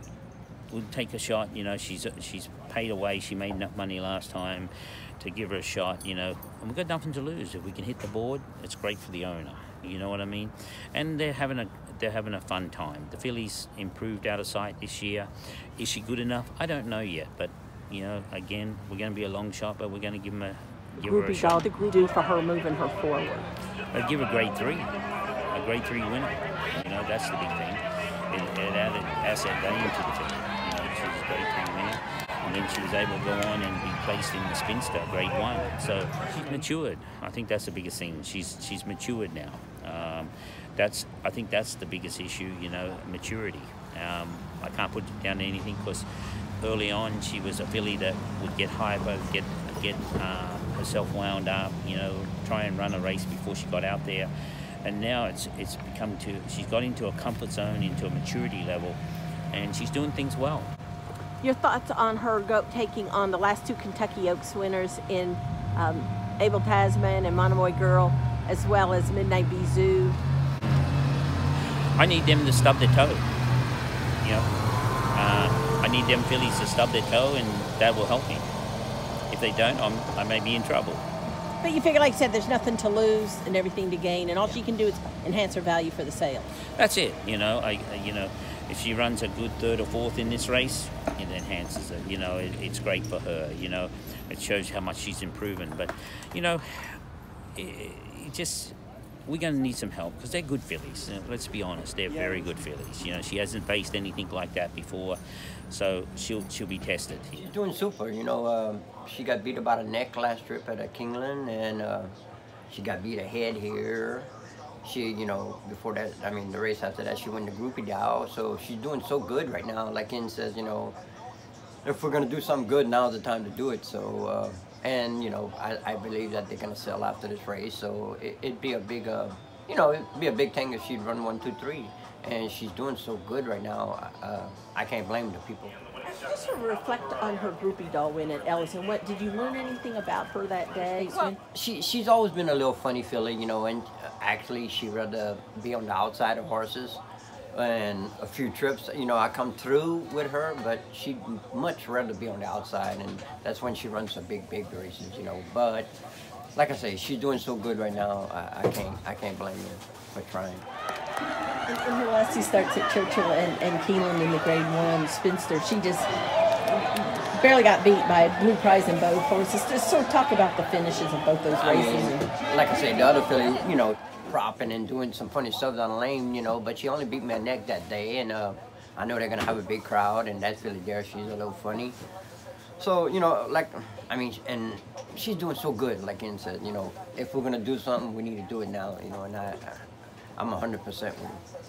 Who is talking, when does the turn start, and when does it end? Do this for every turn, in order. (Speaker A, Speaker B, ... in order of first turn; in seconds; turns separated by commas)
Speaker A: 0.7-21.7, Speaker B: 20.9-23.5, Speaker A: 23.9-24.9, Speaker A: 25.5-46.1, Speaker A: 46.6-54.3, Speaker A: 54.8-59.0, Speaker A: 59.5-60.7, Speaker B: 61.4-70.2, Speaker A: 70.6-70.9, Speaker A: 72.0-73.2, Speaker A: 74.2-74.5, Speaker A: 75.1-78.5, Speaker A: 79.3-81.0, Speaker B: 81.6-86.5, Speaker A: 86.8-97.0, Speaker A: 97.5-98.7, Speaker A: 99.2-107.5, Speaker C: 107.4-112.1, Speaker C: 112.7-114.3, Speaker C: 114.8-121.0, Speaker C: 121.8-135.7, Speaker B: 136.0-141.4, Speaker C: 141.1-147.0, Speaker C: 147.5-155.9, Speaker C: 156.5-160.7, Speaker B: 161.7-166.1, Speaker B: 166.7-172.3, Speaker C: 171.5-182.0, Speaker C: 182.8-191.4